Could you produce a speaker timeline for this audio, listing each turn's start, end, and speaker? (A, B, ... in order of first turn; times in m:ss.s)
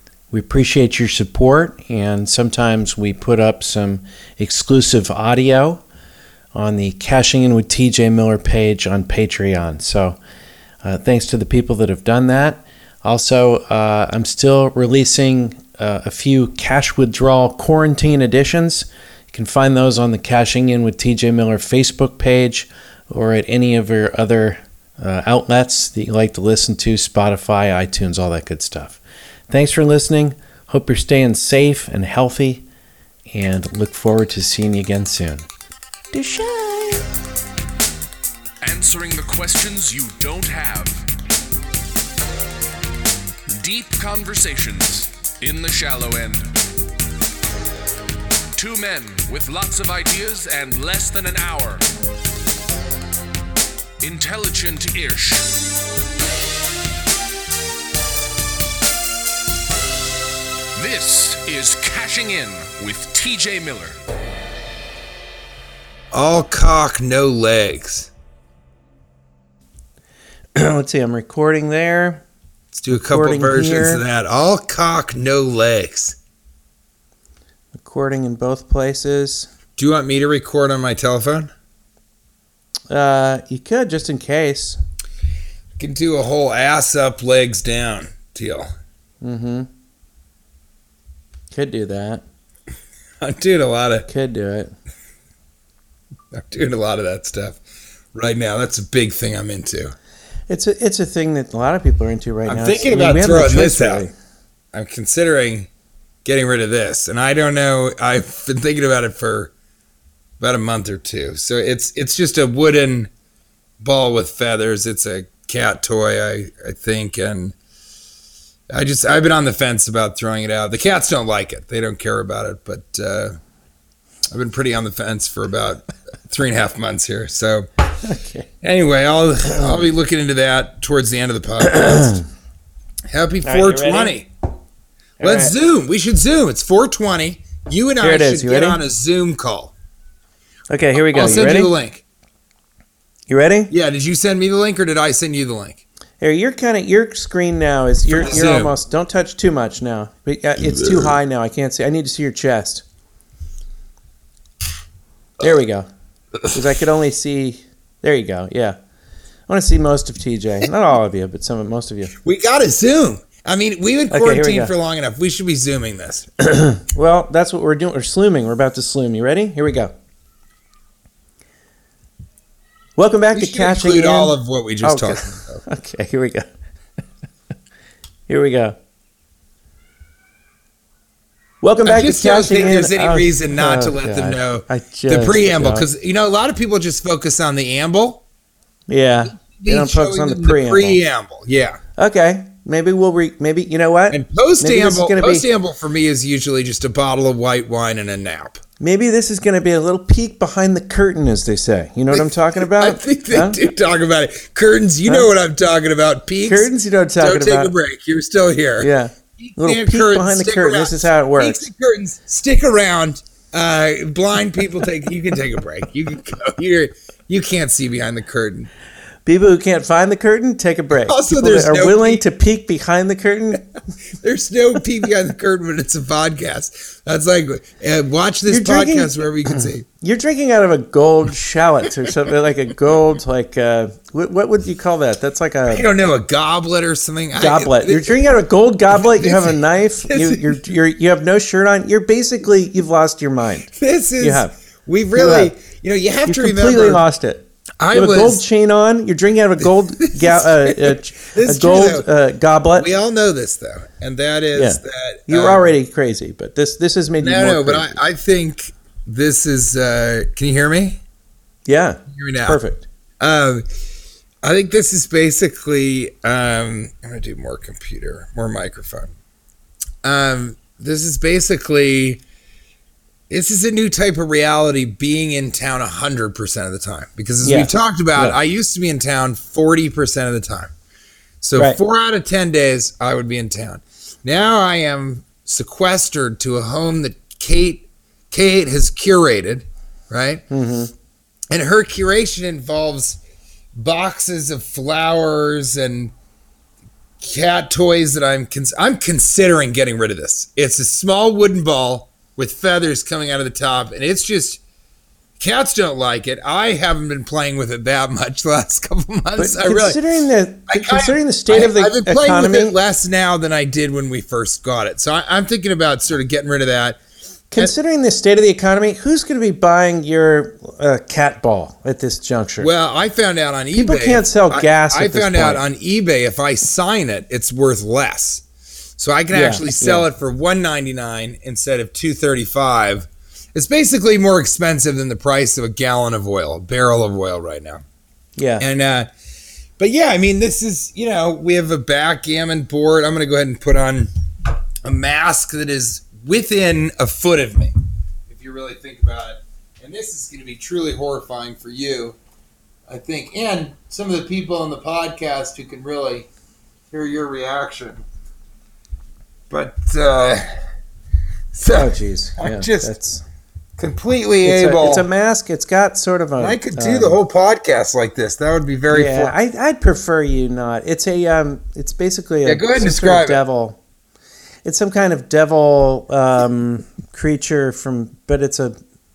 0:00.3-0:05.8 A
0:06.5-0:10.2 A
0:10.8-0:32.7 A
0:33.3-0:35.4 A
0:36.1-0:37.1 A
0:38.6-0:41.0 B
0:43.5-0:46.5 B
0:48.6-0:51.8 B
0:54.0-0:55.5 B
1:00.8-1:04.0 B
1:06.1-1:08.1 C
1:10.6-1:12.2 A
1:12.7-1:16.2 C
1:12.9-1:14.0 A
1:17.8-1:19.5 A
1:19.8-1:21.5 C
1:22.9-1:24.8 A
1:25.8-1:28.7 C
1:29.2-1:29.7 A
1:31.5-1:32.2 A
1:33.2-1:34.1 C
1:34.1-1:34.7 A
1:36.3-1:37.6 C
1:38.1-1:40.0 C
1:40.5-1:44.1 A
1:42.5-1:44.1 C
1:44.7-1:45.7 C
1:46.2-1:49.5 C
1:50.4-1:53.1 C
1:53.8-1:57.6 C
1:58.7-2:03.4 C
2:04.3-2:07.7 C
2:08.0-2:08.5 A
2:08.6-2:12.2 C
2:09.5-2:09.8 A
2:11.6-2:12.2 A
2:13.1-2:14.3 C
2:13.4-2:14.2 A
2:15.2-2:15.6 A
2:15.2-2:19.7 C
2:18.0-2:18.8 A
2:20.7-2:21.7 A
2:21.1-2:22.0 C
2:23.3-2:23.7 A
2:23.7-2:25.8 C
2:26.2-2:32.8 A
2:28.1-2:28.8 C
2:35.4-2:35.9 A
2:36.5-2:38.8 A
2:39.5-2:42.1 A
2:42.2-2:46.3 C
2:44.1-2:44.7 A
2:46.4-2:49.9 A
2:53.0-2:56.5 A
2:53.3-2:55.6 C
2:58.3-2:58.8 A
3:01.6-3:05.9 A
3:01.8-3:08.2 C
3:08.9-3:11.0 A
3:09.3-3:11.8 C
3:12.0-3:15.5 A
3:14.1-3:18.6 C
3:18.8-3:23.6 A
3:22.1-3:38.7 C
3:26.5-3:27.7 A
3:28.8-3:31.6 A
3:39.3-3:43.7 A
3:40.9-3:42.2 C
3:44.2-3:49.8 C
3:48.5-3:55.9 A
3:55.7-3:58.4 C
3:57.4-4:04.5 A
3:58.9-4:00.7 C
4:03.7-4:07.0 C
4:05.2-4:05.5 A
4:06.3-4:12.9 A
4:07.8-4:08.4 C
4:10.0-4:12.1 C
4:12.8-4:15.7 C
4:14.6-4:18.0 A
4:17.2-4:21.0 C
4:21.7-4:22.9 A
4:22.1-4:22.6 C
4:23.2-4:23.6 C
4:24.4-4:29.1 C
4:30.0-4:32.2 C
4:33.3-4:40.7 C
4:37.4-4:38.4 A
4:41.4-4:50.4 C
4:50.5-4:50.9 A
4:51.5-4:53.2 C
4:53.8-4:56.1 C
4:57.2-5:04.6 C
5:05.4-5:10.0 C
5:09.4-5:12.7 A
5:10.7-5:17.0 C
5:17.5-5:22.7 A
5:22.6-5:28.4 C
5:23.8-5:25.6 A
5:29.0-5:37.8 C
5:29.3-5:30.1 A
5:38.4-5:38.7 A
5:38.6-5:39.1 C
5:39.8-5:44.1 C
5:44.8-5:47.7 C
5:48.3-5:52.2 C
5:52.9-5:56.3 C
5:56.9-5:58.0 C
5:59.5-6:00.5 C
6:01.5-6:02.9 C
6:01.7-6:03.2 A
6:03.8-6:05.1 C
6:04.4-6:07.2 A
6:06.4-6:09.3 C
6:08.9-6:13.8 A
6:12.4-6:13.4 C
6:14.6-6:18.8 A